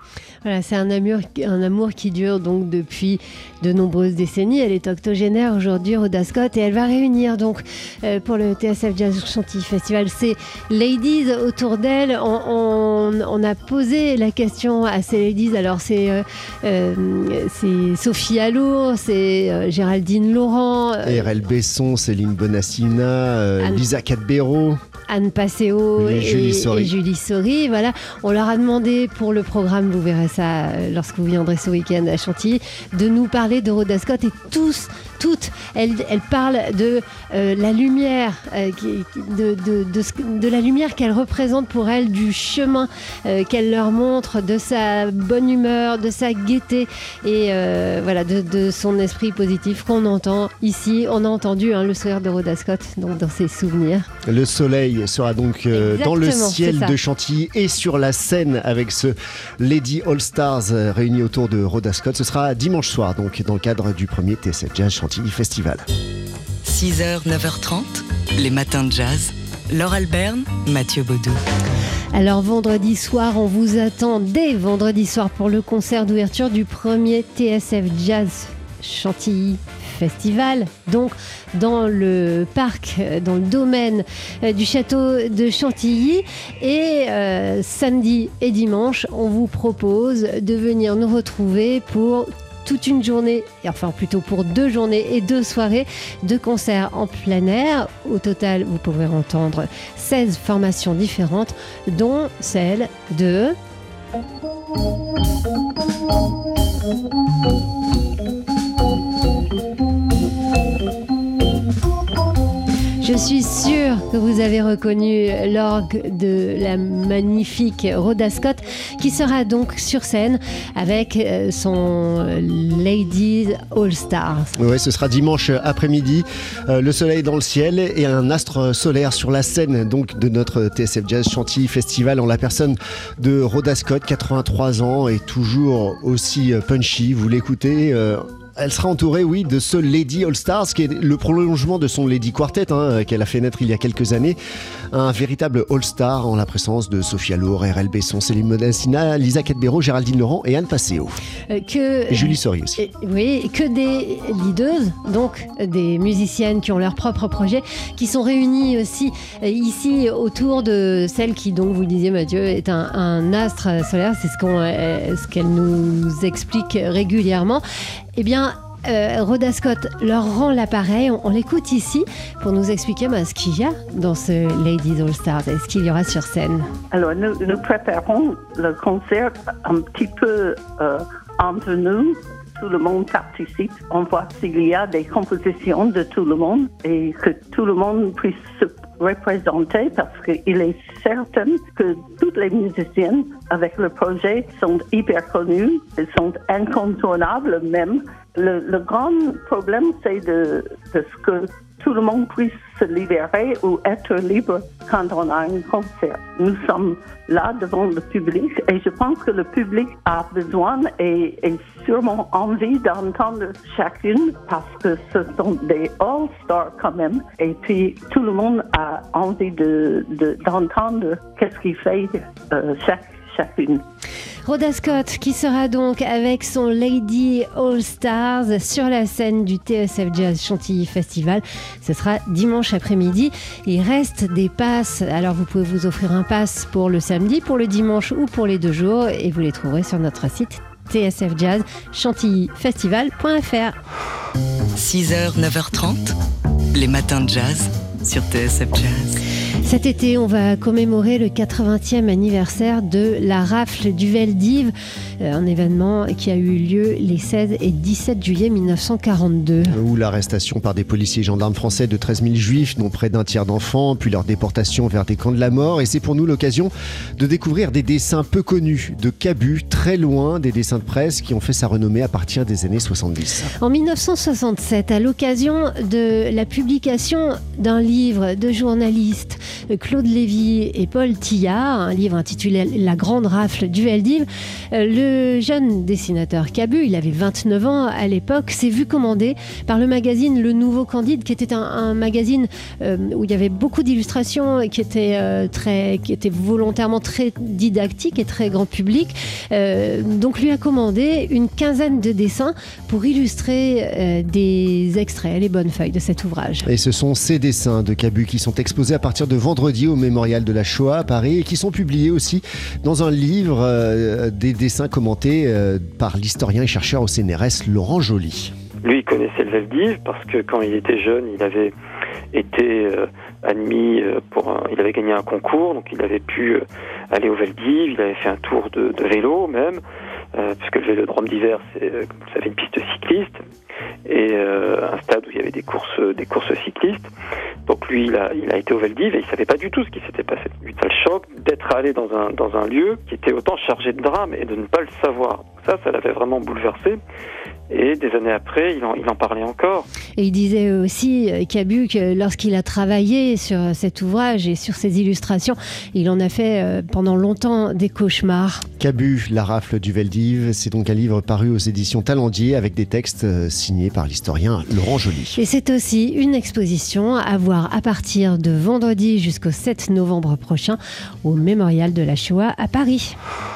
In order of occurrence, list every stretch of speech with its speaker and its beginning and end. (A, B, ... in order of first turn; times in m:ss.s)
0:00.4-0:21.3 A
0:21.0-0:24.8 B
0:25.1-0:54.1 A
0:26.0-0:26.9 B
0:54.3-1:05.8 B
0:55.7-0:57.0 A
1:06.6-1:11.4 C
1:12.1-1:43.6 A
1:53.0-2:04.5 A
2:04.6-2:24.4 B
2:24.9-2:31.2 B
2:31.5-2:47.6 A
2:32.1-2:32.8 B
2:48.2-2:56.7 A
2:56.9-3:43.8 D
3:44.4-4:03.7 A
4:04.8-4:06.1 C
4:06.7-4:09.2 C
4:09.6-4:19.7 A
4:19.6-4:33.5 B
4:33.6-5:06.7 A
5:06.6-5:18.5 B
5:18.8-5:21.7 E
5:22.3-5:29.8 E
5:30.3-5:33.4 E
5:34.0-5:37.1 E
5:37.7-5:47.0 E
5:47.7-5:49.9 E
5:50.2-5:58.6 A
5:58.8-6:05.4 B
6:05.3-6:13.1 A